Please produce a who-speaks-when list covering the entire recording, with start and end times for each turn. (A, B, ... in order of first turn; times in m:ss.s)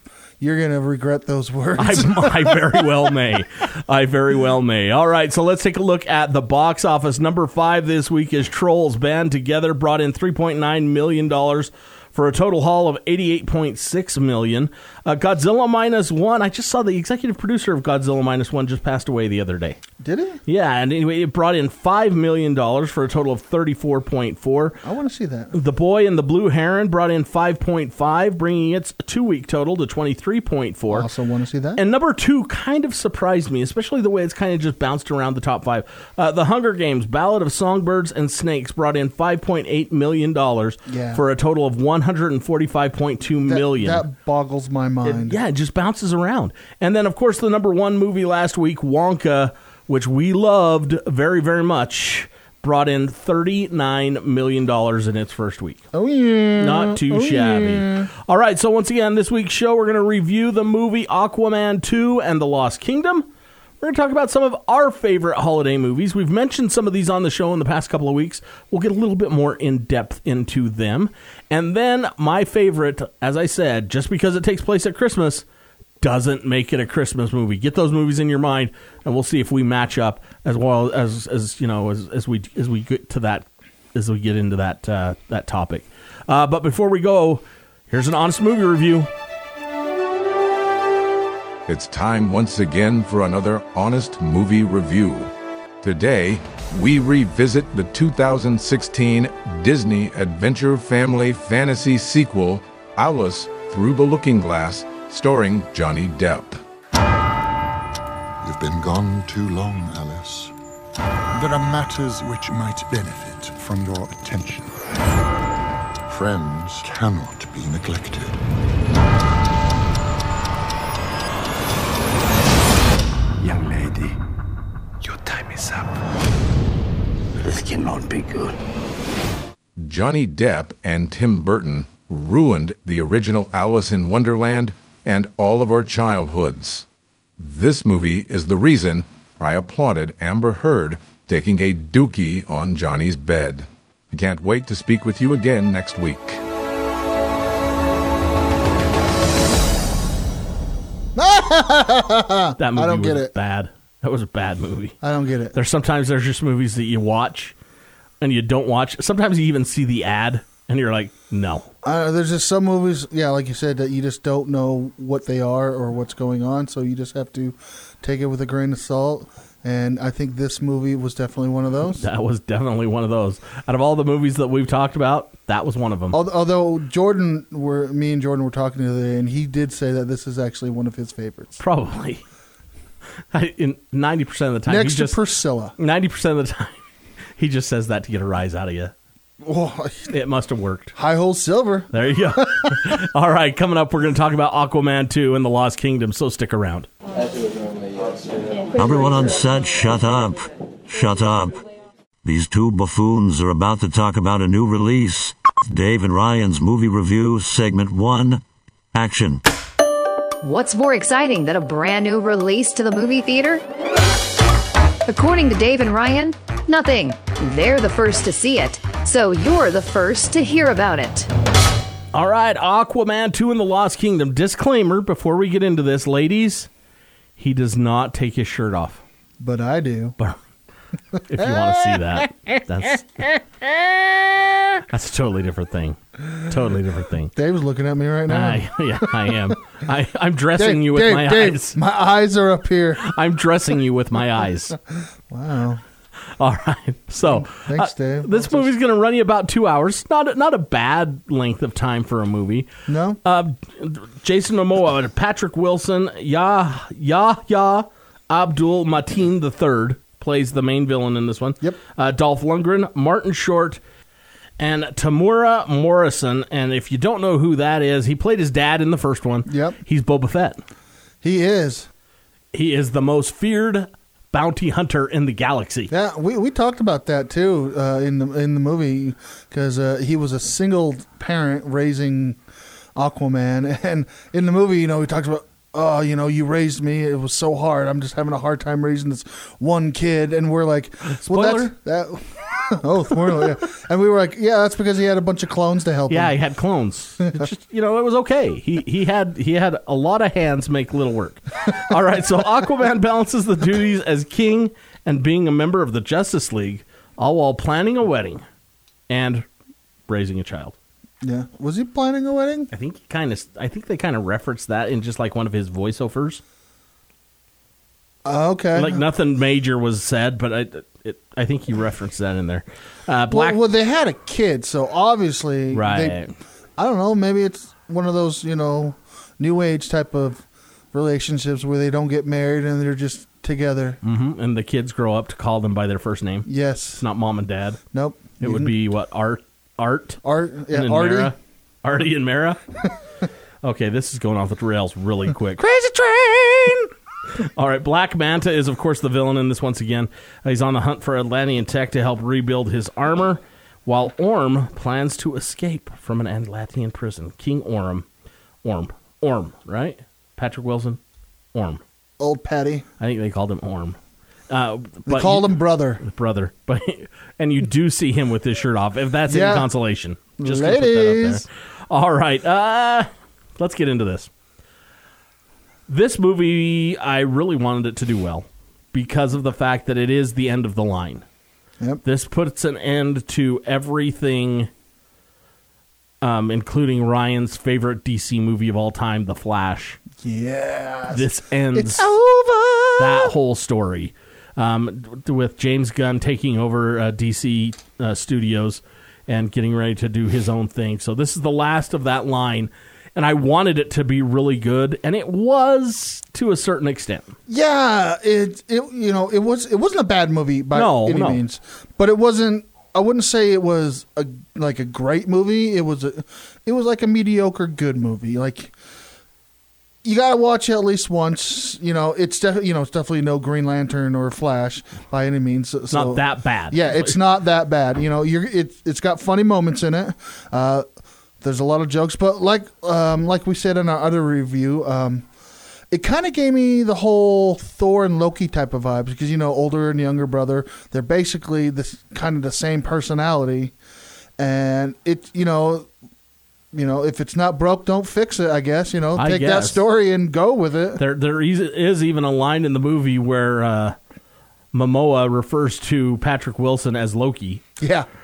0:00.4-0:03.1 A
0:01.8-0:19.8 B
0:20.0-0:20.4 A
0:20.4-0:24.8 B
0:24.8-0:25.5 A
0:25.5-0:31.1 B
0:30.9-0:31.8 A
0:31.8-0:44.0 B
0:40.8-0:41.2 A
0:43.5-0:45.4 A
0:45.0-0:55.8 B
0:55.9-0:58.1 A
0:56.6-1:03.3 B
1:03.8-1:15.4 B
1:16.0-1:29.1 B
1:31.7-1:35.3 C
1:35.8-1:46.6 C
1:48.4-1:50.5 D
1:51.3-1:54.8 D
1:56.1-1:58.4 D
2:03.4-2:04.2 E
2:05.0-2:06.0 E
2:07.4-2:08.6 E
2:09.8-2:16.8 C
2:17.4-2:26.4 C
2:31.1-2:33.3 A
2:32.6-2:35.0 B
2:35.0-2:35.6 A
2:35.5-2:37.5 B
2:38.2-2:41.7 B
2:41.8-2:52.0 A
2:52.0-2:56.2 B
2:56.1-3:01.6 A
3:01.6-3:02.2 B
3:03.3-3:05.2 B
3:04.7-3:05.7 A
3:05.8-3:06.8 B
3:07.4-3:08.9 B
3:09.4-3:10.1 A
3:10.1-3:10.9 B
3:10.9-3:13.0 A
3:11.9-3:16.9 B
3:18.7-3:21.6 F
3:22.2-3:28.4 F
3:28.9-3:29.4 F
3:30.4-3:33.6 G
3:35.1-3:41.3 G
3:42.1-3:46.7 B
3:47.4-3:49.0 B
3:49.4-3:50.2 A
3:51.2-3:53.3 B
3:51.4-3:52.2 A
3:53.8-3:54.4 A
3:54.9-3:57.3 B
3:57.3-3:59.5 A
3:58.3-4:01.8 B
4:00.6-4:03.0 A
4:03.0-4:04.8 B
4:04.9-4:05.8 A
4:06.4-4:12.7 B
4:07.2-4:08.7 A
4:12.9-4:13.2 A
4:13.2-4:23.8 B
4:24.6-4:30.6 B
4:29.4-4:29.8 A
4:31.2-4:31.9 A
4:32.5-4:35.9 B
4:35.9-4:42.4 A
4:43.0-4:56.4 A
4:51.1-4:51.7 B
4:56.1-5:08.4 B
5:09.1-5:09.4 B
5:10.1-5:10.7 B
5:11.2-5:12.7 A
5:12.7-5:16.4 B
5:18.2-5:19.0 A
5:18.7-5:23.6 B
5:23.3-5:26.2 A
5:25.7-5:26.3 B
5:26.8-5:34.0 A
5:34.0-5:36.5 B
5:36.4-5:37.0 A
5:37.0-5:37.8 B
5:37.9-5:38.7 A
5:38.4-5:42.6 B
5:40.2-5:41.3 A
5:43.6-5:45.6 B
5:45.6-5:46.9 A
5:47.3-5:58.0 B
5:58.6-6:01.0 B
6:01.5-6:01.8 B
6:02.2-6:02.9 A
6:03.0-6:04.0 B
6:04.5-6:14.3 B
6:05.1-6:06.0 A
6:09.3-6:09.7 A
6:10.4-6:11.4 A
6:15.9-6:21.2 B
6:22.0-6:24.7 B
6:26.2-6:30.0 B
6:30.2-6:33.3 A
6:31.1-6:32.1 B
6:33.0-6:47.3 B
6:47.5-6:58.7 A
6:50.7-6:51.4 B
7:00.0-7:10.9 A
7:05.9-7:07.2 B
7:11.4-7:15.3 A
7:15.9-7:23.7 A
7:24.4-7:25.9 A
7:26.7-7:31.0 A
7:29.2-7:29.8 B
7:31.0-7:34.0 B
7:34.7-7:37.6 B
7:37.8-7:38.1 A